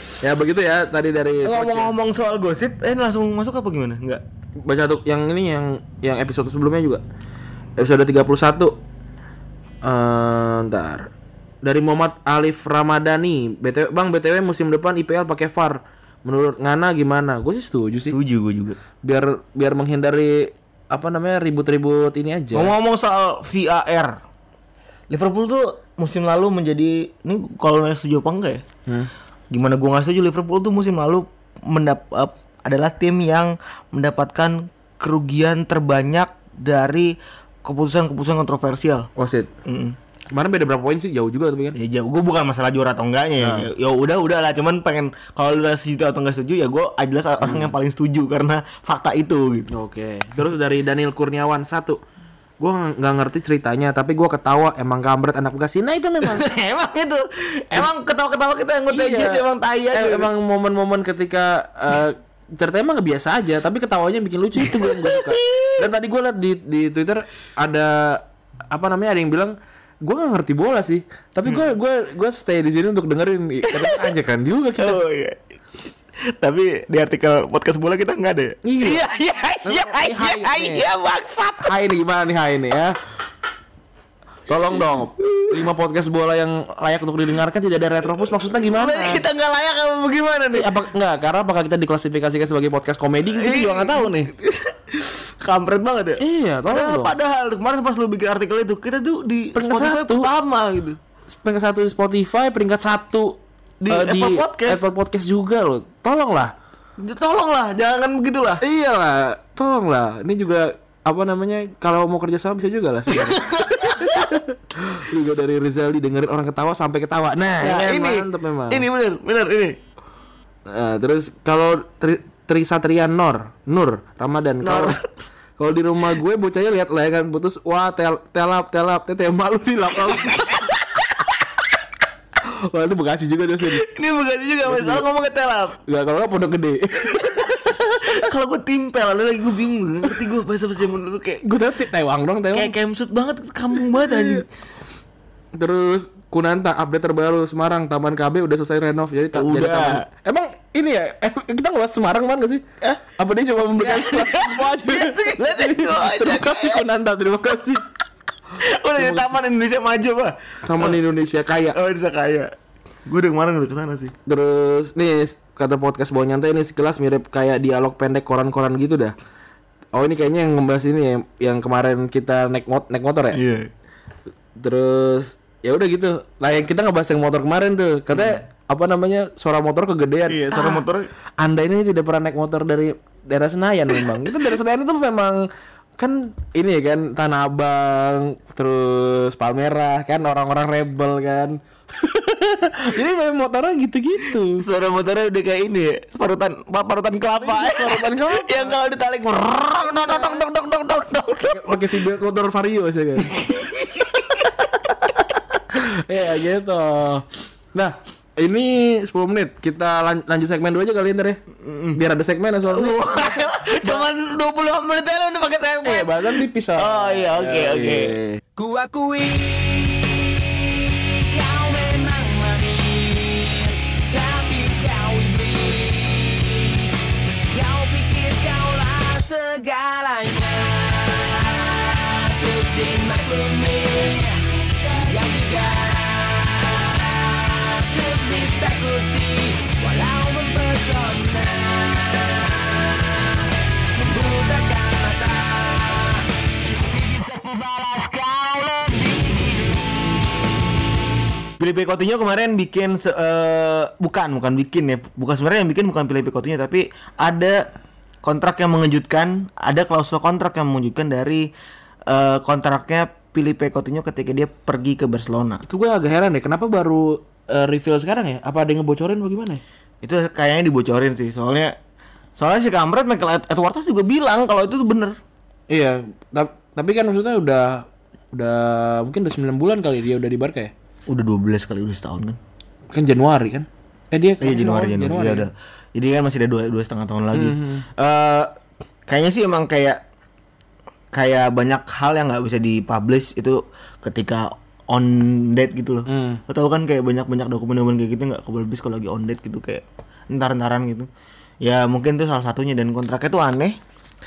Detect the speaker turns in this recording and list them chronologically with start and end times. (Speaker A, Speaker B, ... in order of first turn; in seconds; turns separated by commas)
Speaker A: 0.2-1.9, Speaker B: 1.4-4.2, Speaker A: 4.6-7.0, Speaker A: 7.8-8.8, Speaker A: 9.8-11.1, Speaker A: 11.6-18.2, Speaker B: 18.1-18.8, Speaker A: 19.0-22.7, Speaker B: 22.5-24.2, Speaker B: 25.1-28.6, Speaker B: 29.5-39.1, Speaker A: 39.2-39.5, Speaker B: 39.6-40.0, Speaker A: 40.3-41.8, Speaker B: 41.7-49.7, Speaker A: 43.4-43.7, Speaker A: 47.4-47.7, Speaker A: 49.7-52.0, Speaker A: 52.6-56.4, Speaker B: 56.2-60.3, Speaker A: 58.9-75.0, Speaker B: 64.5-65.9, Speaker B: 73.7-74.1, Speaker B: 74.8-81.7, Speaker A: 78.6-79.0, Speaker A: 79.6-80.8, Speaker A: 81.6-82.9, Speaker A: 84.5-89.2, Speaker B: 88.6-90.7, Speaker A: 90.5-94.3, Speaker B: 93.3-101.0, Speaker A: 96.2-97.1, Speaker A: 99.5-100.3, Speaker A: 101.4-106.5, Speaker B: 103.8-104.8, Speaker B: 107.0-108.6, Speaker A: 108.6-118.8, Speaker B: 113.1-114.4, Speaker B: 117.6-119.8, Speaker A: 120.7-125.0, Speaker B: 124.6-125.1, Speaker A: 125.6-130.7, Speaker B: 130.1-131.2, Speaker A: 132.4-133.8, Speaker B: 133.6-135.8, Speaker A: 134.6-135.0, Speaker A: 135.8-138.1, Speaker B: 137.2-141.4, Speaker A: 141.4-142.7, Speaker B: 142.5-144.5, Speaker A: 143.8-144.4, Speaker A: 145.6-157.8, Speaker B: 149.3-150.0, Speaker B: 153.7-156.8, Speaker B: 158.6-161.0, Speaker A: 159.0-159.3, Speaker A: 160.6-161.8, Speaker B: 161.7-162.5, Speaker B: 163.0-164.1, Speaker A: 164.2-169.1, Speaker A: 169.9-173.4, Speaker B: 173.3-173.7, Speaker A: 174.6-180.8, Speaker B: 178.1-178.4, Speaker B: 180.3-181.1, Speaker A: 181.4-185.5, Speaker A: 186.0-194.6, Speaker B: 194.6-202.0, Speaker A: 197.4-198.7, Speaker A: 200.1-200.4, Speaker A: 201.5-203.3, Speaker B: 203.2-205.3, Speaker A: 205.7-211.4, Speaker B: 211.5-212.0, Speaker A: 211.9-214.0, Speaker B: 212.7-218.2, Speaker A: 215.8-218.4, Speaker C: 218.6-227.0, Speaker C: 227.5-243.0, Speaker C: 243.9-246.2, Speaker B: 247.0-249.0, Speaker C: 248.8-249.6, Speaker B: 251.6-257.7, Speaker B: 258.2-261.5, Speaker B: 262.1-265.6, Speaker A: 265.6-269.6, Speaker B: 270.0-271.7, Speaker B: 272.4-275.2, Speaker A: 275.7-280.7, Speaker B: 281.1-282.4, Speaker A: 282.9-285.5, Speaker B: 284.4-288.5, Speaker A: 287.3-287.8, Speaker B: 289.1-290.0, Speaker B: 291.1-301.1, Speaker A: 296.1-296.4, Speaker B: 301.6-303.8